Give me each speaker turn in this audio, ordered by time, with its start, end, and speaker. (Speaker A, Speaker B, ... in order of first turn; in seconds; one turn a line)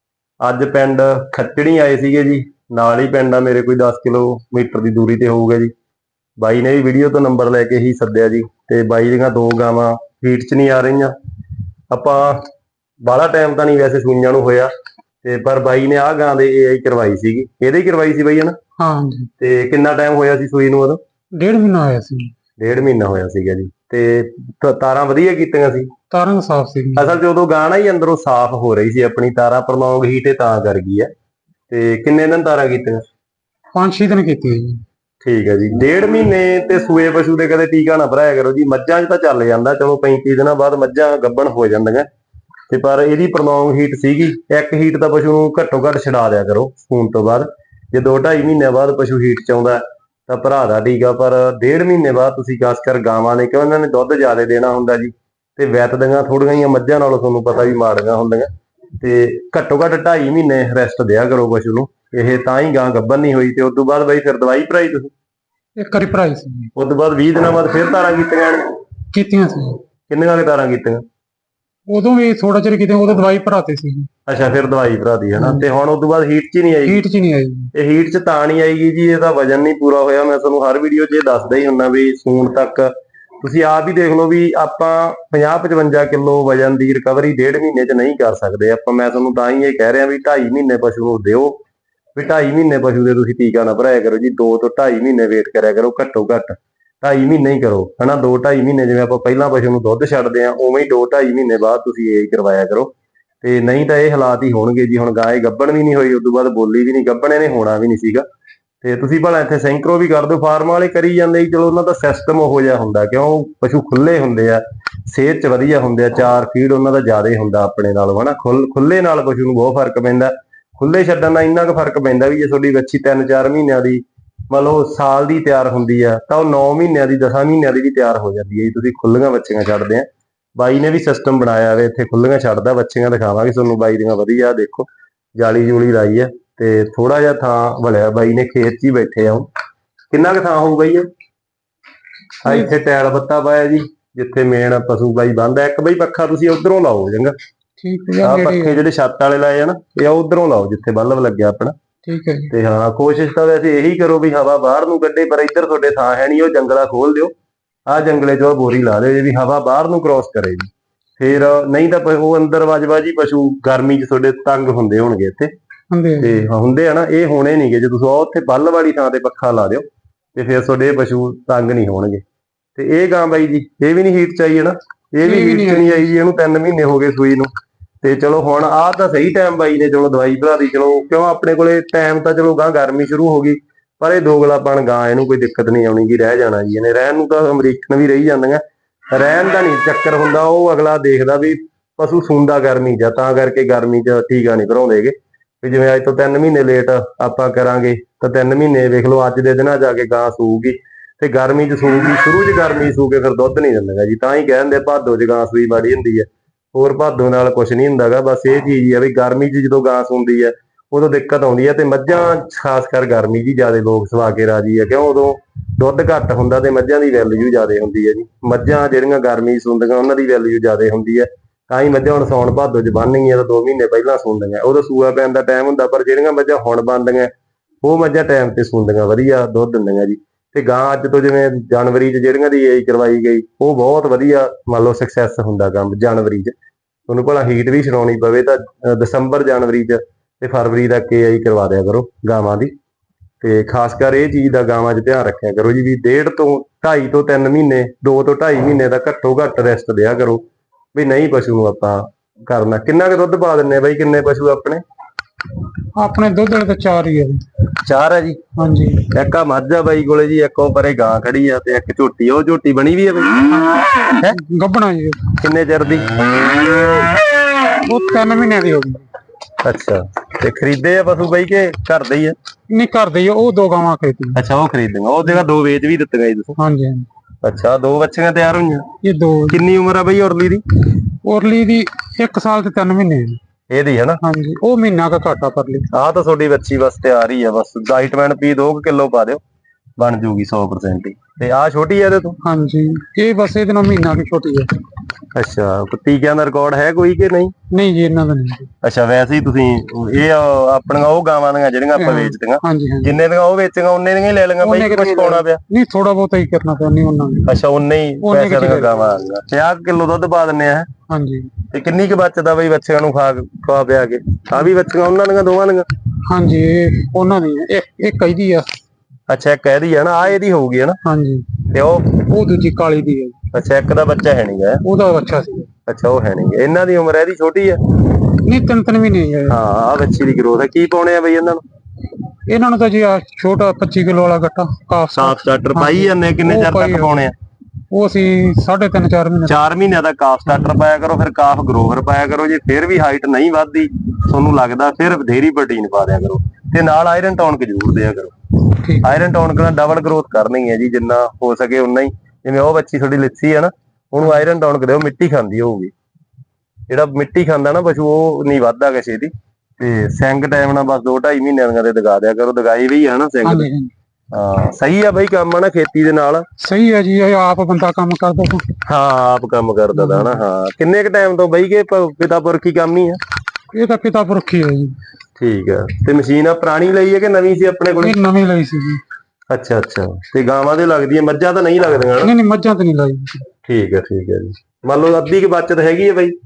Speaker A: 0.4-5.7
Speaker A: 6.4-11.1
Speaker A: 11.9-12.4
Speaker A: 13.1-14.7
Speaker A: 15.2-18.6
Speaker B: 18.8-19.3
Speaker A: 19.4-21.0
Speaker B: 21.4-22.3
Speaker A: 22.6-25.9
Speaker B: 26.1-27.1
Speaker A: 27.0-31.1
Speaker A: 31.7-33.0
Speaker B: 33.7-34.8
Speaker A: 35.2-42.1
Speaker A: 42.7-58.5
Speaker A: 59.0-65.1
Speaker B: 65.8-66.7
Speaker A: 66.8-68.7
Speaker B: 69.1-69.8
Speaker A: 70.1-71.0
Speaker B: 71.9-74.1
Speaker A: 74.3-77.0
Speaker B: 75.4-75.6
Speaker B: 76.8-77.7
Speaker A: 77.7-91.6
Speaker A: 92.2-108.2
Speaker A: 108.8-139.5
Speaker A: 140.1-141.0
Speaker A: 142.4-147.3
Speaker B: 147.8-148.8
Speaker A: 148.2-151.8
Speaker B: 152.1-152.5
Speaker A: 152.5-157.3
Speaker A: 157.9-165.5
Speaker B: 165.9-166.4
Speaker A: 166.2-172.2
Speaker A: 172.8-177.5
Speaker B: 175.2-176.1
Speaker A: 178.0-227.3
Speaker A: 227.8-236.6
Speaker A: 237.1-242.7
Speaker A: 243.4-250.4
Speaker A: 250.9-254.8
Speaker B: 256.0-257.4
Speaker A: 257.8-258.4
Speaker B: 258.6-259.1
Speaker A: 259.1-263.3
Speaker B: 263.6-265.3
Speaker A: 265.4-266.2
Speaker B: 267.8-269.1
Speaker A: 269.6-272.4
Speaker B: 272.7-274.4
Speaker A: 274.4-276.6
Speaker B: 276.6-277.1
Speaker A: 277.4-278.9
Speaker B: 279.0-279.6
Speaker A: 279.5-280.6
Speaker B: 281.2-283.4
Speaker A: 283.7-284.2
Speaker B: 284.2-285.9
Speaker A: 285.9-289.4
Speaker A: 290.0-292.4
Speaker B: 292.4-294.7
Speaker A: 295.3-297.5
Speaker B: 297.7-298.7
Speaker A: 298.8-305.6
Speaker B: 301.9-303.1
Speaker B: 304.6-307.5
Speaker A: 307.5-310.9
Speaker B: 308.2-309.0
Speaker B: 311.1-311.5
Speaker A: 311.7-315.9
Speaker B: 316.3-318.8
Speaker A: 319.3-321.0
Speaker B: 321.1-321.6
Speaker A: 321.7-322.2
Speaker B: 322.2-323.4
Speaker A: 323.5-324.8
Speaker B: 324.8-325.7
Speaker A: 325.9-327.8
Speaker B: 328.4-329.6
Speaker A: 329.5-331.6
Speaker B: 332.5-337.2
Speaker A: 335.1-337.4
Speaker B: 337.9-339.6
Speaker A: 339.5-348.3
Speaker B: 348.8-349.2
Speaker A: 349.0-355.9
Speaker A: 356.9-363.7
Speaker B: 363.4-363.9
Speaker A: 364.3-366.4
Speaker B: 366.6-368.7
Speaker A: 368.9-373.2
Speaker B: 369.9-370.4
Speaker B: 373.7-375.0
Speaker A: 375.4-378.1
Speaker B: 378.0-379.0
Speaker A: 379.5-382.3
Speaker B: 382.2-383.4
Speaker A: 383.7-386.4